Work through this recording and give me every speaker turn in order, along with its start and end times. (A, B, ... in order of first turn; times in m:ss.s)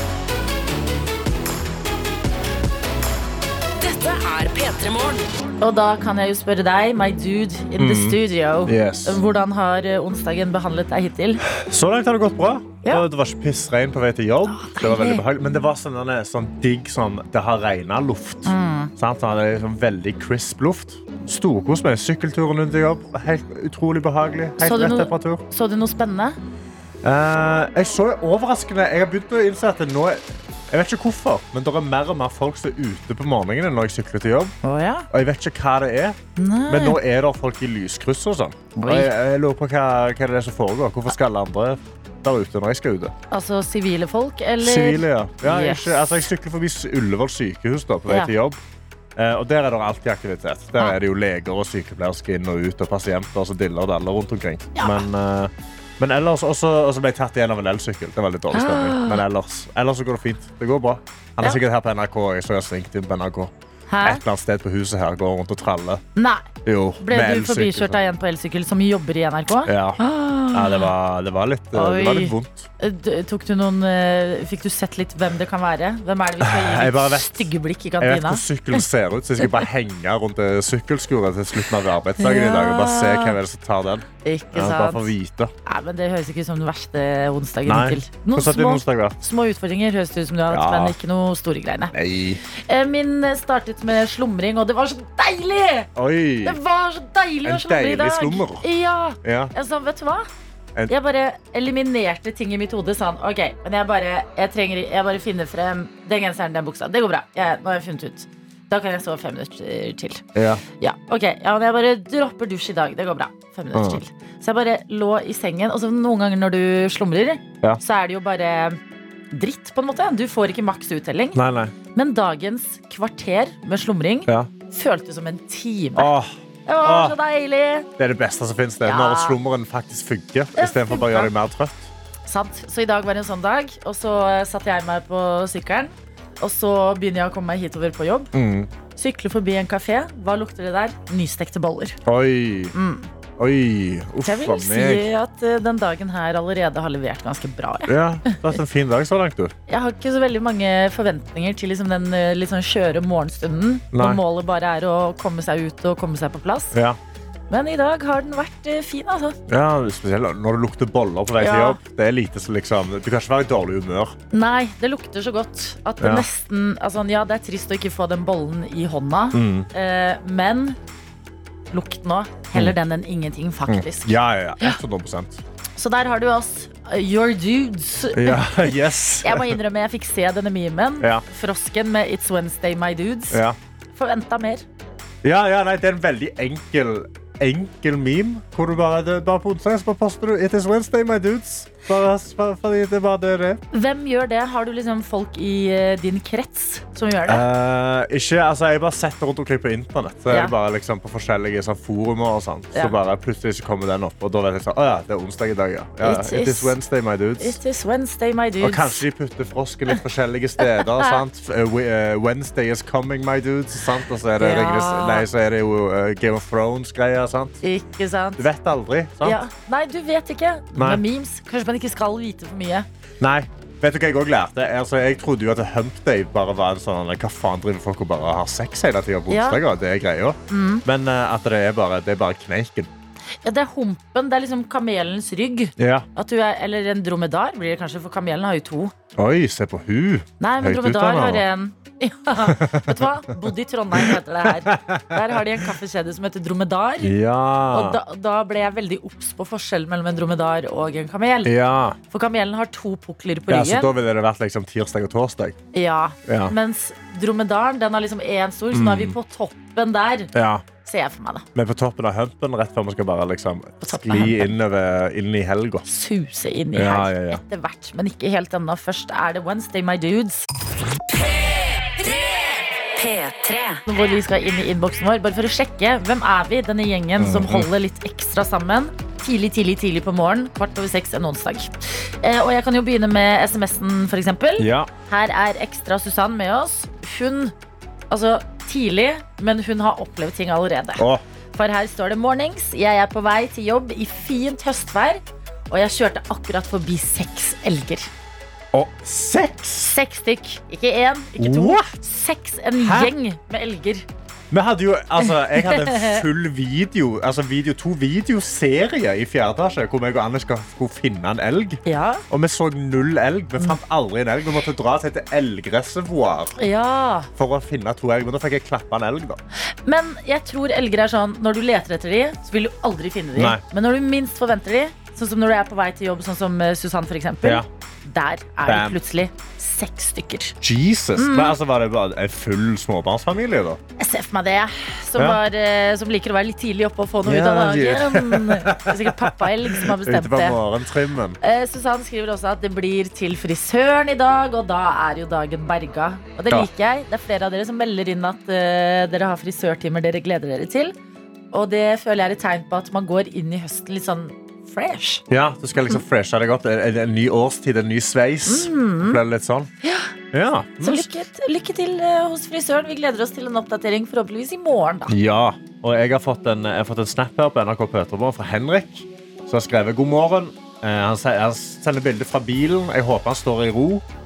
0:03.8-0:05.2 A
0:05.6-0:11.4 B
0:07.8-0:09.2 C
0:11.5-0:25.4 C
0:14.5-0:15.2 B
0:18.4-0:18.9 B
0:24.6-0:26.4 B
0:27.0-0:34.5 C
0:34.6-0:35.1 B
0:35.1-0:36.2 C
0:36.4-0:37.0 B
0:36.7-0:43.1 C
0:38.8-0:39.1 B
0:43.3-0:46.0 B
0:44.6-0:48.6 C
0:49.2-1:03.5 C
0:54.8-0:55.0 B
0:58.5-0:59.2 B
1:03.9-1:04.2 B
1:04.0-1:06.0 C
1:06.2-1:06.5 B
1:06.6-1:08.0 C
1:07.0-1:10.9 B
1:09.6-1:10.0 C
1:10.5-1:12.7 C
1:11.7-1:18.8 B
1:16.4-1:25.5 C
1:19.4-1:19.6 B
1:22.2-1:23.4 B
1:24.2-1:25.1 B
1:25.6-1:31.9 B
1:27.6-1:29.2 C
1:30.5-1:30.9 C
1:31.9-1:32.4 C
1:32.5-1:35.9 B
1:36.0-1:36.6 C
1:36.4-1:40.3 B
1:37.4-1:38.6 C
1:39.2-1:39.5 C
1:40.9-1:50.2 B
1:50.3-1:50.6 C
1:50.8-1:58.8 B
1:53.7-1:54.0 C
1:59.3-2:01.4 B
2:01.4-2:01.7 C
2:01.9-2:06.1 B
2:06.0-2:07.1 C
2:06.6-2:07.9 B
2:08.0-2:11.9 C
2:08.8-2:09.4 B
2:10.6-2:11.3 B
2:12.3-2:18.3 B
2:18.3-2:18.7 C
2:18.9-2:22.0 B
2:22.0-2:22.7 C
2:22.7-2:23.1 B
2:23.4-2:25.0 C
2:24.2-2:28.4 B
2:27.9-2:29.5 C
2:29.7-2:36.8 B
2:33.9-2:34.2 C
2:37.5-2:39.4 B
2:39.5-2:44.1 C
2:41.4-2:41.8 B
2:44.3-2:50.8 B
2:46.0-2:46.2 C
2:49.3-2:49.7 C
2:51.7-2:54.8 B
2:53.7-2:55.4 C
2:55.8-3:03.4 B
2:58.1-2:59.6 C
3:04.0-3:04.6 B
3:05.2-3:13.6 C
3:13.7-3:17.4 B
3:17.3-3:27.6 C
3:26.0-3:26.7 B
3:27.4-3:29.0 B
3:28.6-3:37.6 C
3:30.6-3:31.2 B
3:34.4-3:35.3 B
3:37.6-3:38.4 B
3:38.4-3:39.4 C
3:39.2-3:42.9 B
3:40.8-3:41.0 C
3:43.2-3:52.9 C
3:49.3-3:49.6 B
3:50.5-3:50.8 B
3:53.4-3:58.9 B
3:55.8-3:56.1 C
3:59.2-4:01.4 C
4:00.4-4:07.1 B
4:02.5-4:03.3 C
4:03.9-4:05.4 C
4:07.0-4:08.0 C
4:07.7-4:11.5 B
4:11.4-4:12.0 C
4:12.1-4:13.9 B
4:13.5-4:15.6 C
4:15.7-4:20.3 B
4:16.3-4:16.5 C
4:18.7-4:19.2 C
4:20.3-4:20.6 C
4:20.8-4:21.4 B
4:21.5-4:25.8 C
4:23.8-4:24.5 B
4:25.8-4:30.4 B
4:26.7-4:27.4 C
4:33.0-4:33.5 A
4:33.7-4:47.5 B
4:37.2-4:37.7 C
4:44.6-4:44.9 C
4:48.1-4:51.0 B
4:51.5-4:58.1 B
4:58.7-5:00.0 C
4:59.8-5:04.0 B
5:01.4-5:01.8 C
5:02.8-5:03.1 C
5:04.5-5:16.6 C
5:05.2-5:06.2 B
5:11.8-5:12.2 B
5:16.6-5:17.3 B
5:17.4-5:19.4 C
5:19.7-5:30.5 B
5:23.4-5:23.6 C
5:28.7-5:29.0 C
5:30.6-5:33.8 C
5:31.2-5:31.5 B
5:34.0-5:40.6 B
5:37.2-5:41.4 C
5:41.4-5:50.9 B
5:51.5-5:55.2 B
5:55.3-5:59.7 C
5:58.4-5:59.2 B
5:59.8-6:00.1 B
6:00.3-6:01.1 C
6:00.8-6:05.1 B
6:05.1-6:14.0 C